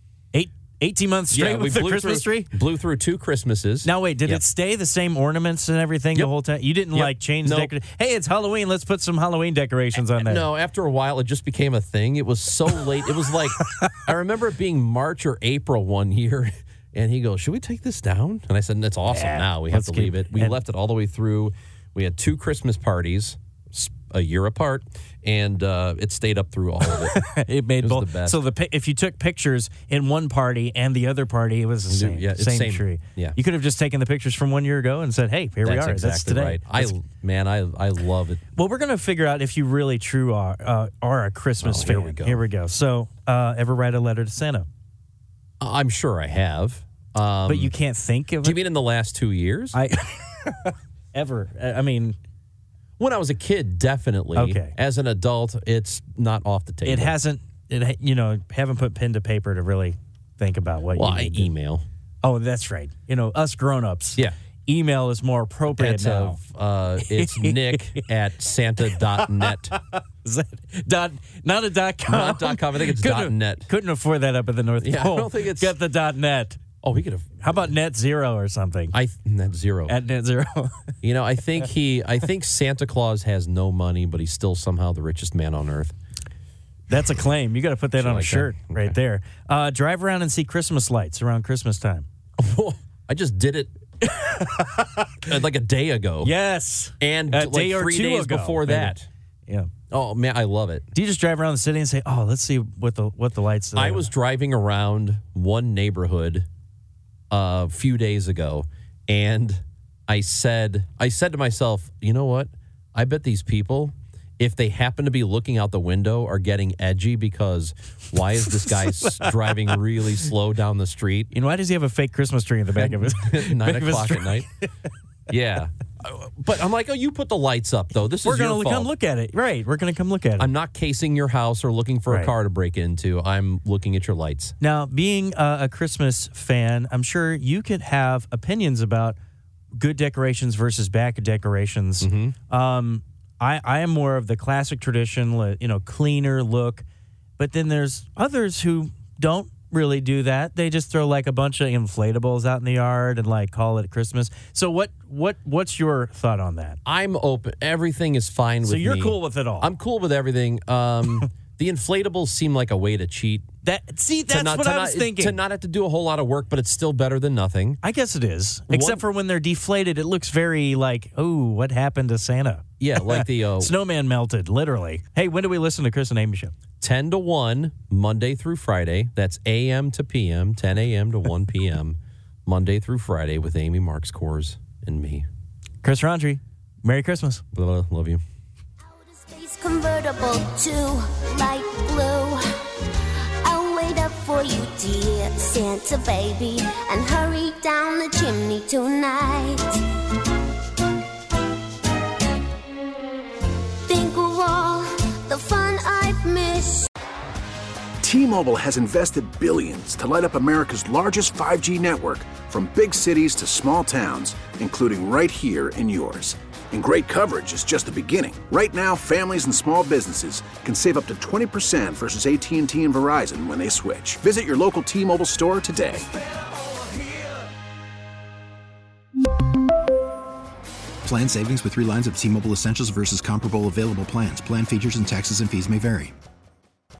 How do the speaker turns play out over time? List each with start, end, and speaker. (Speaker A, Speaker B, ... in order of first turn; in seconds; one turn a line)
Speaker A: 0.3-2.5
Speaker B: 1.3-4.4
Speaker A: 3.8-10.5
Speaker B: 6.9-7.7
Speaker B: 9.9-27.2
Speaker A: 19.1-20.6
Speaker A: 26.9-37.0
Speaker B: 27.8-28.4
Speaker B: 31.9-33.4
Speaker B: 35.6-38.4
Speaker A: 38.5-44.7
Speaker B: 41.6-42.4
Speaker B: 45.6-47.7
Speaker A: 47.5-48.6
Speaker B: 48.4-49.8
Speaker A: 49.7-52.1
Speaker B: 53.0-57.1
Speaker A: 54.3-54.7
Speaker A: 56.8-61.5
Speaker B: 60.9-61.8
Speaker A: 62.2-66.4
Speaker B: 65.7-69.8
Speaker A: 67.0-68.0
Speaker A: 69.0-76.6
Speaker B: 72.1-73.7
Speaker B: 74.8-75.8
Speaker B: 76.8-77.7
Speaker A: 77.4-78.9
Speaker B: 78.9-80.0
Speaker A: 79.9-80.9
Speaker B: 81.0-85.9
Speaker A: 86.9-92.0
Speaker B: 88.0-88.9
Speaker B: 92.4-93.7
Speaker A: 94.1-95.1
Speaker B: 95.2-96.3
Speaker A: 96.2-99.7
Speaker B: 97.0-99.1
Speaker B: 99.9-100.9
Speaker A: 100.9-104.1
Speaker B: 103.8-106.5
Speaker B: 107.3-121.3
Speaker A: 118.7-119.3
Speaker A: 121.3-124.7
Speaker B: 122.7-124.5
Speaker B: 125.3-128.9
Speaker A: 128.2-130.5
Speaker B: 130.4-134.5
Speaker A: 132.1-132.3
Speaker A: 134.6-139.2
Speaker A: 139.7-146.8
Speaker B: 142.0-142.3
Speaker A: 147.4-156.8
Speaker B: 156.8-163.5
Speaker A: 158.6-159.7
Speaker A: 163.6-165.4
Speaker B: 164.3-167.8
Speaker A: 167.8-176.5
Speaker B: 168.7-169.0
Speaker B: 172.8-173.7
Speaker B: 176.8-185.2
Speaker A: 185.8-187.4
Speaker B: 187.5-188.2
Speaker C: 188.8-199.8
Speaker C: 203.8-206.9
Speaker D: 208.0-226.0
Speaker E: 231.0-236.1